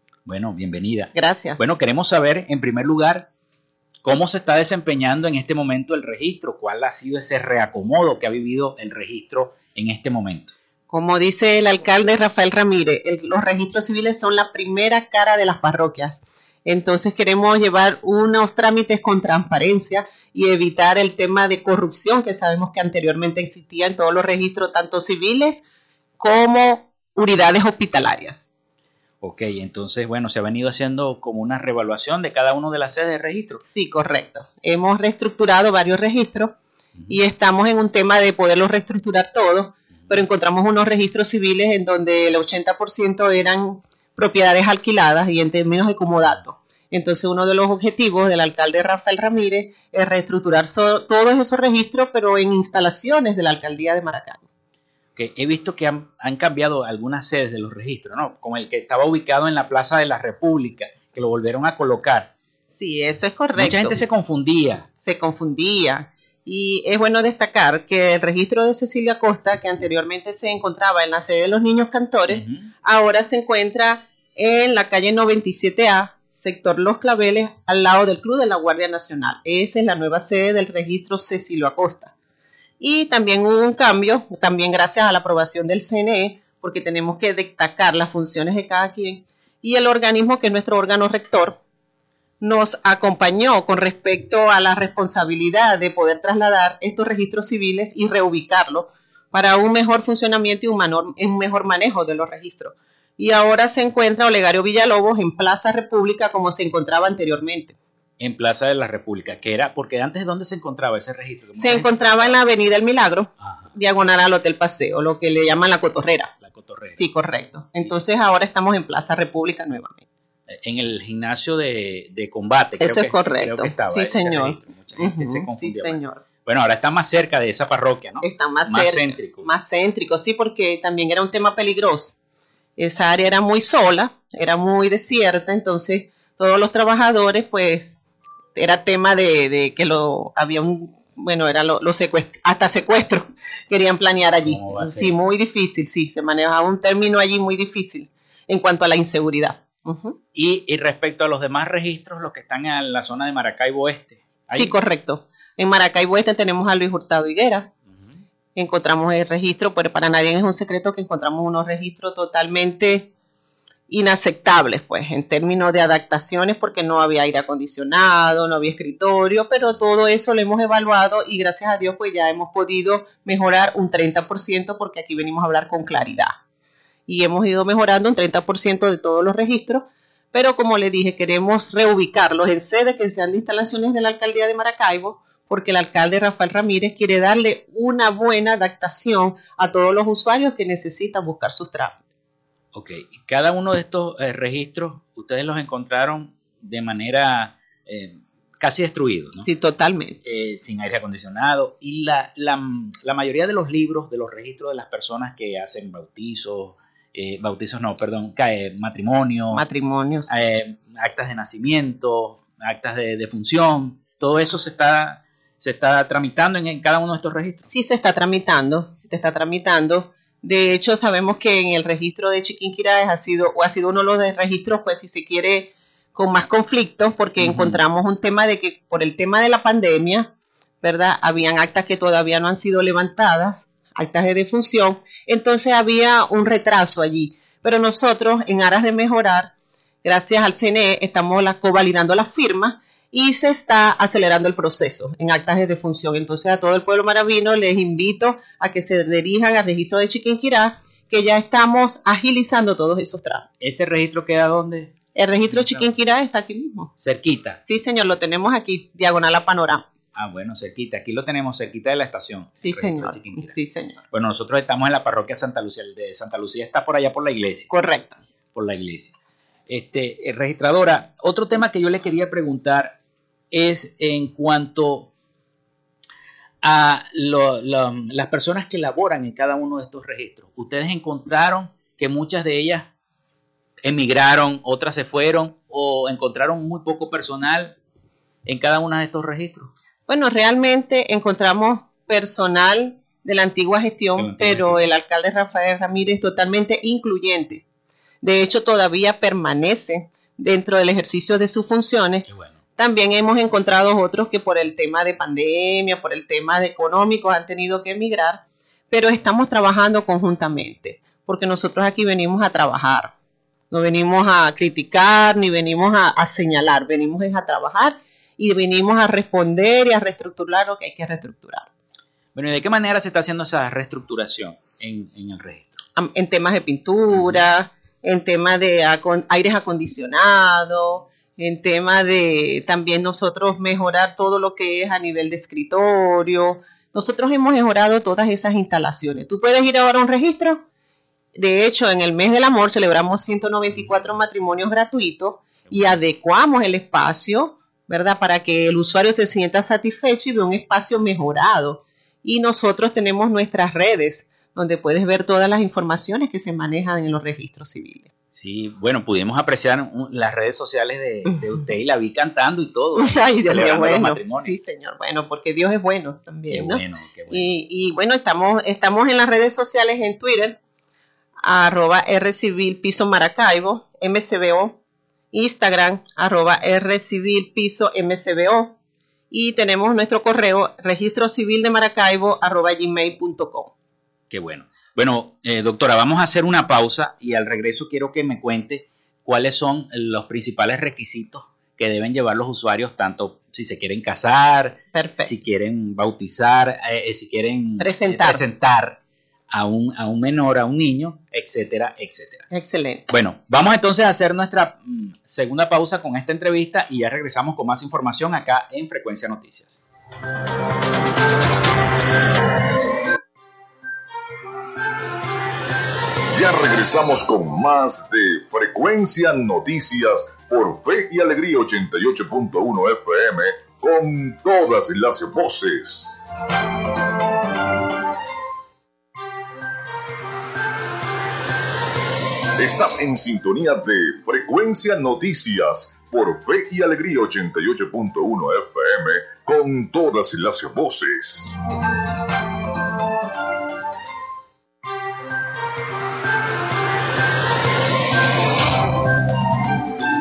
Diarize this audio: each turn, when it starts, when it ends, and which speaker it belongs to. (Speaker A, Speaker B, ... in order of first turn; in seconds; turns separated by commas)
Speaker A: 0.2-3.3, Speaker B: 1.1-1.6, Speaker A: 4.0-10.5, Speaker B: 10.9-25.7, Speaker B: 26.2-28.5, Speaker A: 29.2-33.6, Speaker B: 33.6-36.5, Speaker B: 37.1-54.4, Speaker A: 55.1-62.3, Speaker B: 62.7-64.0, Speaker A: 63.5-64.8, Speaker B: 65.0-82.1, Speaker A: 72.3-72.7, Speaker B: 82.8-91.6, Speaker B: 92.4-107.8, Speaker A: 108.2-112.4, Speaker B: 111.6-116.3, Speaker A: 113.4-113.7, Speaker A: 116.4-117.0, Speaker B: 116.9-120.0, Speaker A: 120.5-129.5, Speaker B: 122.8-126.2, Speaker B: 128.2-132.2, Speaker B: 132.8-138.0, Speaker B: 138.5-150.2, Speaker A: 144.4-145.1, Speaker A: 150.3-154.7, Speaker B: 154.5-157.7, Speaker B: 158.6-163.1, Speaker B: 163.9-176.4, Speaker B: 177.1-192.0, Speaker A: 192.7-199.5, Speaker B: 199.4-200.2, Speaker A: 200.2-209.6, Speaker B: 209.5-210.3, Speaker A: 210.3-217.7, Speaker B: 217.7-230.3, Speaker A: 227.4-227.8, Speaker B: 230.8-239.5, Speaker B: 240.0-253.4, Speaker A: 253.6-254.9, Speaker B: 255.1-256.9, Speaker A: 255.4-255.9, Speaker A: 257.0-257.6, Speaker B: 257.6-259.8, Speaker A: 260.1-263.5, Speaker B: 262.6-264.0, Speaker A: 264.1-267.7, Speaker B: 267.7-268.1, Speaker A: 268.5-269.1, Speaker A: 269.7-272.9, Speaker A: 273.5-275.1, Speaker A: 276.6-282.9, Speaker A: 283.8-287.8, Speaker A: 288.4-289.7, Speaker B: 290.1-297.6, Speaker A: 294.1-294.8, Speaker B: 298.2-313.1, Speaker A: 302.3-302.6, Speaker B: 313.7-321.7, Speaker A: 322.3-325.8, Speaker B: 325.9-340.6, Speaker A: 327.1-327.4, Speaker B: 341.4-358.1, Speaker A: 358.3-364.6, Speaker B: 362.9-370.6, Speaker A: 366.5-367.5, Speaker B: 371.4-374.8, Speaker B: 375.3-378.7, Speaker B: 379.3-383.7, Speaker A: 384.3-399.0, Speaker B: 394.9-395.3, Speaker B: 397.8-398.4, Speaker A: 399.5-402.4, Speaker B: 402.5-403.0, Speaker A: 403.1-409.8, Speaker C: 416.3-426.2, Speaker C: 432.6-441.5